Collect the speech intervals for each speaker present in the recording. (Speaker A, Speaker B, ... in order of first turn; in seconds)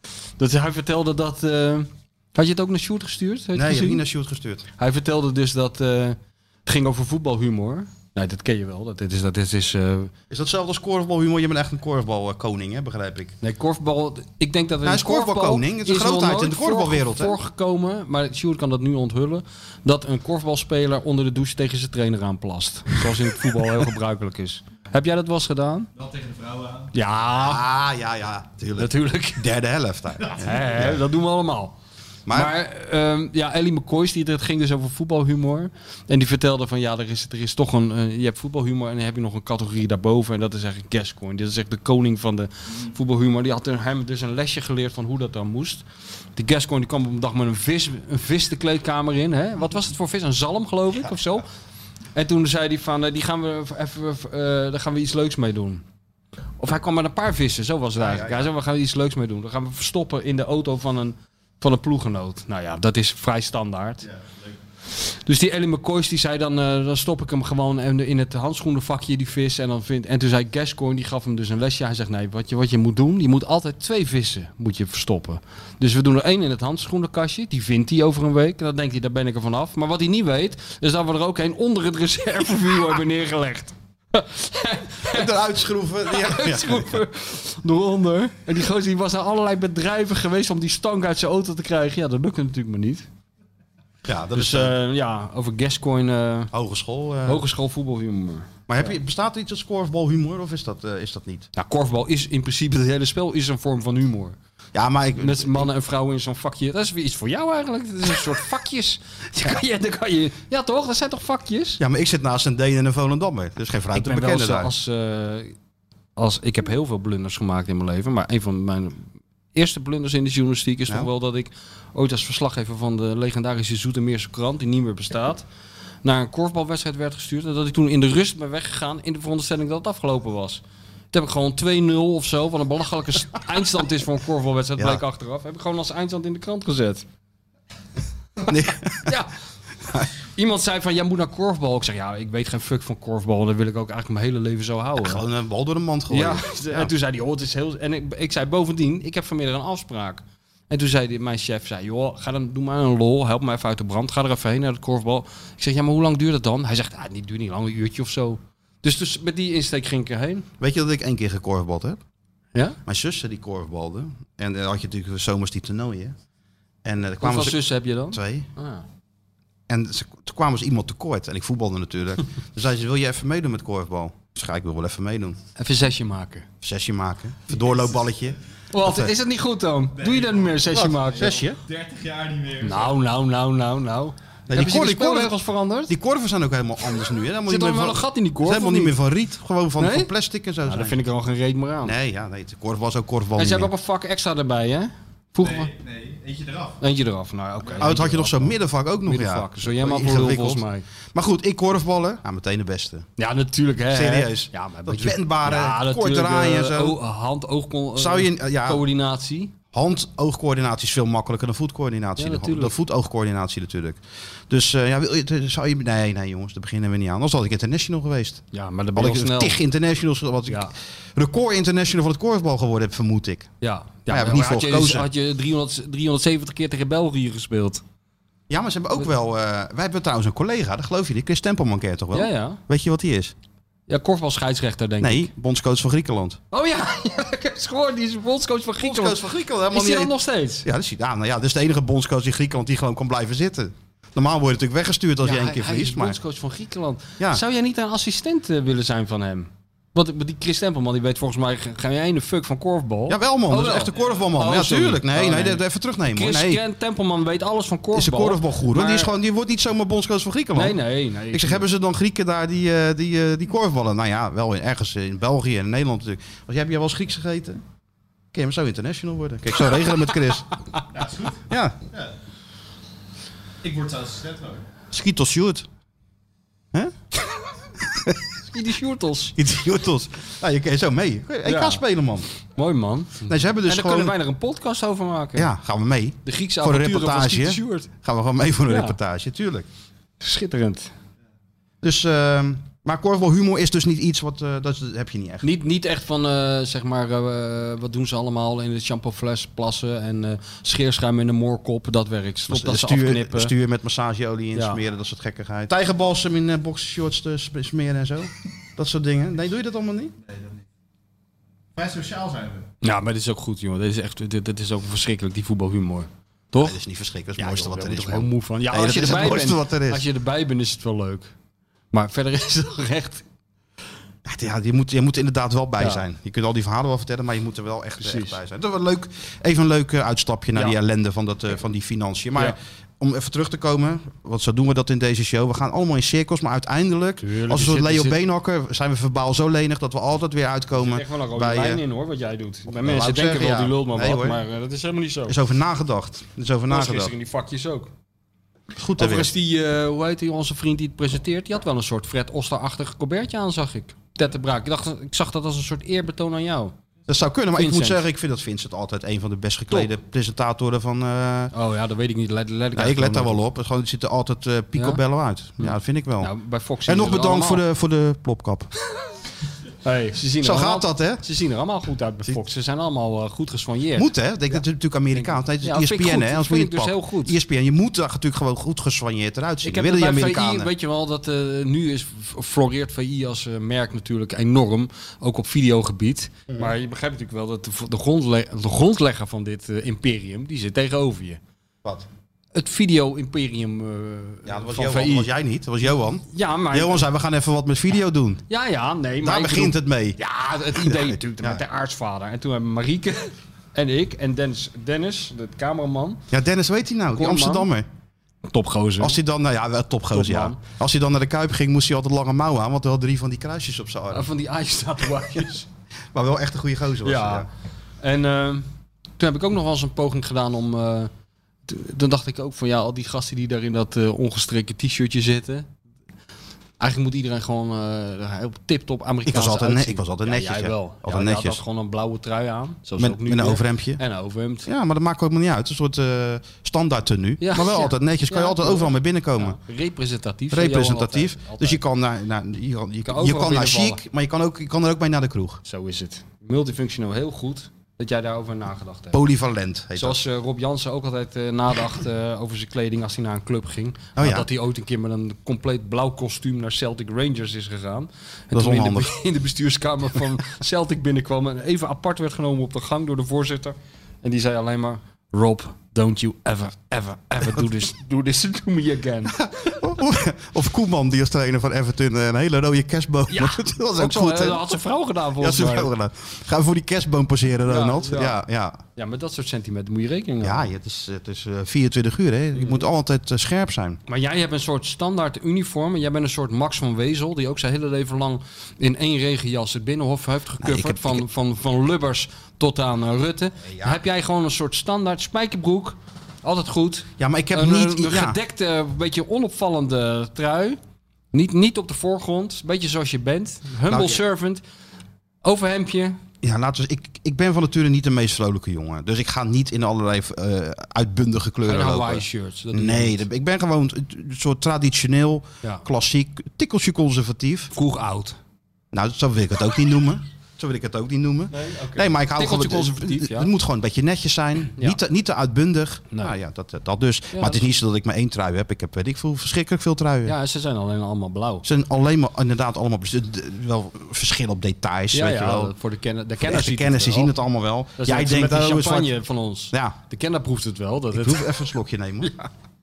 Speaker A: 0.4-4.0, 4.8-10.1, 13.4-25.9, 26.9-27.6, 28.8-29.4, 30.3-31.8, 32.3-45.8, 46.4-51.4, 52.1-55.8, 56.6-64.1, 65.0-85.3, 86.0-93.0, 94.3-96.5, 97.2-98.9, 101.5-104.3, 105.2-111.8, 113.9-115.5, 116.2-125.4, 126.0-137.0, 139.1-139.3, 140.3-145.2, 146.1-160.5, 167.2-168.8, 175.6-176.5, 178.7-181.5, 182.6-185.9, 187.5-188.9, 189.8-190.1, 190.7-191.9, 193.4-195.7, 196.8-200.8, 203.2-209.5, 212.2-212.7, 218.5-219.6, 223.6-227.8, 232.1-232.6, 233.9-235.3, 236.5-240.7, 245.2-259.1, 260.5-261.6, 278.5-279.3, 281.4-281.8, 282.5-285.5, 286.2-287.9, 288.7-289.0, 290.2-290.9, 295.4-303.5, 304.5-304.8, 312.8-316.8, 317.4-321.3, 321.9-323.2, 325.8-326.0, 328.0-328.4, 337.2-338.2, 340.7-345.4, 346.7-347.9, 349.0-356.7, 357.6-358.0, 361.5-363.4, 364.8-365.0, 365.6-367.6, 369.8-374.6, 375.1-377.4, 379.6-391.4, 392.5-395.3, 396.3-397.1, 398.5-406.2, 407.1-407.7, 408.5-409.2, 410.1-410.6, 414.1-415.7, 417.0-417.5, 418.0-421.1, 421.6-425.7, 426.8-434.7, 437.4-441.8, 443.0-444.0, 445.6-449.2, 449.9-469.4, 473.3-475.9, 477.6-478.4, 478.9-480.7, 484.1-500.8, 501.3-504.6, 505.4-506.2, 511.6-513.2, 517.7-518.4, 521.5-523.5, 527.3-527.7, 530.2-531.6, 535.1-537.3, 538.0-541.5
Speaker B: 3.5-4.7, 10.3-13.3, 14.8-17.4, 27.4-31.0, 32.3-32.5, 58.0-58.5, 85.1-87.0, 94.0-94.7, 96.5-97.4, 98.7-101.5, 104.7-105.7, 111.8-114.7, 138.4-139.1, 145.0-146.9, 160.6-162.0, 162.8-166.2, 166.8-168.5, 169.7-175.4, 176.6-179.1, 180.7-181.6, 184.5-185.3, 185.9-191.0, 191.8-193.7, 197.8-203.1, 203.9-207.0, 207.9-208.8, 209.7-223.5, 224.1-225.1, 228.5-233.3, 235.0-236.4, 238.8-246.2, 253.1-256.6, 257.9-267.6, 268.3-270.5, 271.5-271.8, 274.9-275.7, 277.8-278.2, 279.4-282.3, 283.3-284.1, 285.4-289.7, 291.8-295.5, 302.5-310.1, 316.6-320.1, 324.2-341.8, 342.7-344.4, 345.3-347.1, 348.8-349.3, 357.1-361.5, 362.7-366.3, 366.8-368.7, 370.4-371.2, 373.9-380.7, 394.4-398.4, 399.2-400.2, 400.7-401.6, 406.3-407.9, 409.0-414.3, 416.1-417.5, 429.2-431.6, 433.0-434.0, 434.6-439.6, 440.5-445.6, 449.1-450.2, 454.1-454.5, 458.5-459.1, 469.4-474.8, 475.4-478.8, 480.4-484.0, 490.6-491.2, 493.6-494.0, 497.2-498.4, 503.9-504.2, 506.4-517.7, 518.9-530.4, 531.6-535.7, 536.4-539.1, 541.1-542.4
Speaker C: 26.0-26.8, 180.0-180.6, 181.1-182.9, 195.4-196.8, 270.9-271.4, 273.6-274.6, 311.8-312.6